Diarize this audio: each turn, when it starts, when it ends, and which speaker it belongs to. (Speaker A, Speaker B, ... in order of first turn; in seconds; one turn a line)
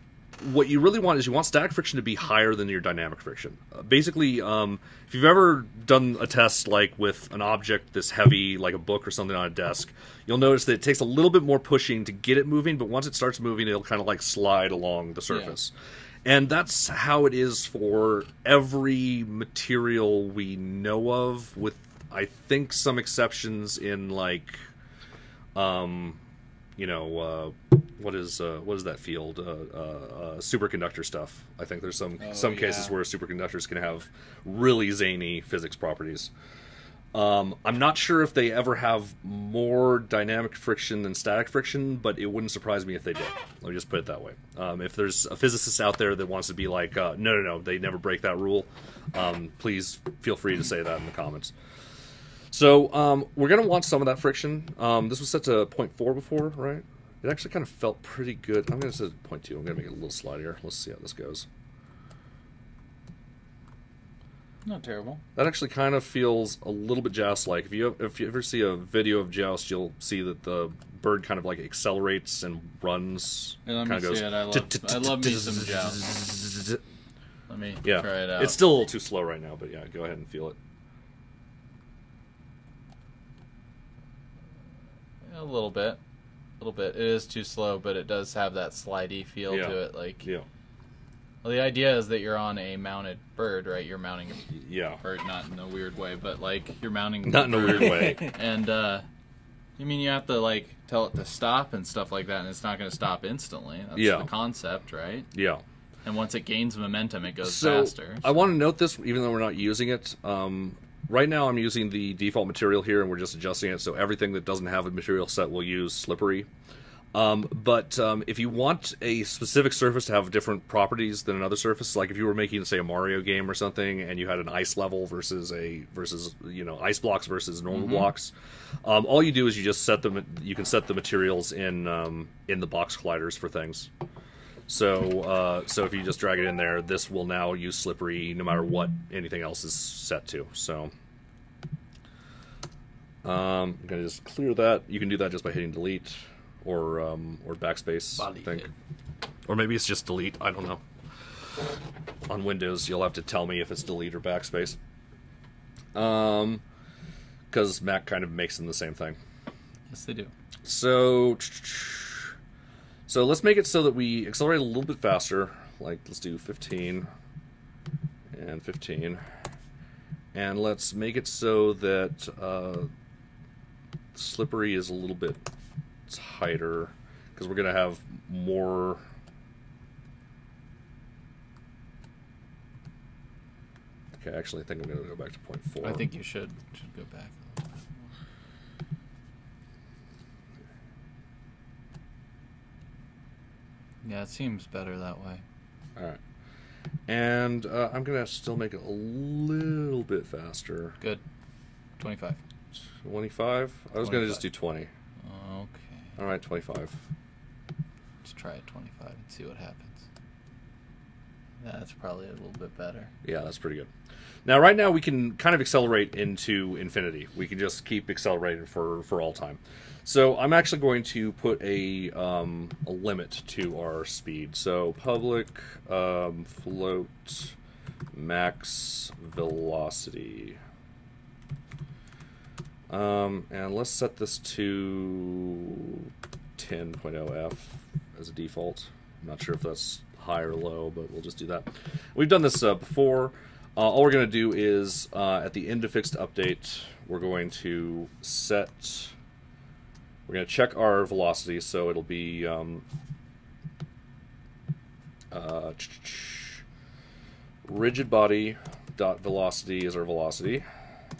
Speaker A: 0.4-15.7
Speaker B: 15.3-15.5
Speaker A: 16.2-24.6
Speaker A: 25.5-26.2
Speaker A: 26.8-36.3
Speaker B: 32.2-33.0
Speaker A: 37.1-51.5
Speaker A: 52.5-61.5
Speaker B: 64.6-65.2
Speaker A: 65.3-76.8
Speaker B: 73.7-76.0
Speaker B: 77.5-78.6
Speaker A: 77.8-80.6
Speaker B: 85.2-86.0
Speaker B: 86.6-90.2
Speaker A: 89.5-90.5
Speaker B: 91.4-99.0
Speaker A: 94.5-95.0
Speaker A: 97.2-98.3
Speaker B: 99.8-105.3
Speaker A: 103.9-104.3
Speaker A: 105.3-105.6
Speaker B: 106.0-108.5
Speaker A: 107.4-116.5
Speaker A: 117.1-133.9
Speaker B: 127.7-128.1
Speaker A: 134.7-140.9
Speaker A: 143.2-148.7
Speaker B: 148.2-148.7
Speaker A: 149.5-150.8
Speaker A: 152.3-154.8
Speaker A: 155.9-156.6
Speaker A: 157.5-159.2
Speaker B: 159.9-160.3
Speaker A: 160.6-162.3
Speaker A: 163.1-167.1
Speaker A: 168.3-169.2
Speaker A: 170.3-172.9
Speaker A: 174.1-175.4
Speaker A: 176.1-179.0
Speaker A: 184.1-186.0
Speaker B: 185.8-188.1
Speaker B: 194.0-195.4
Speaker A: 197.1-201.0
Speaker B: 202.0-202.4
Speaker A: 203.0-204.9
Speaker B: 204.0-204.4
Speaker B: 205.2-206.2
Speaker A: 206.2-207.0
Speaker B: 208.2-210.0
Speaker B: 211.6-213.1
Speaker A: 213.2-213.9
Speaker A: 214.4-227.6
Speaker A: 228.1-230.6
Speaker A: 232.9-249.1
Speaker A: 250.3-252.8
Speaker A: 255.3-256.6
Speaker A: 257.6-260.6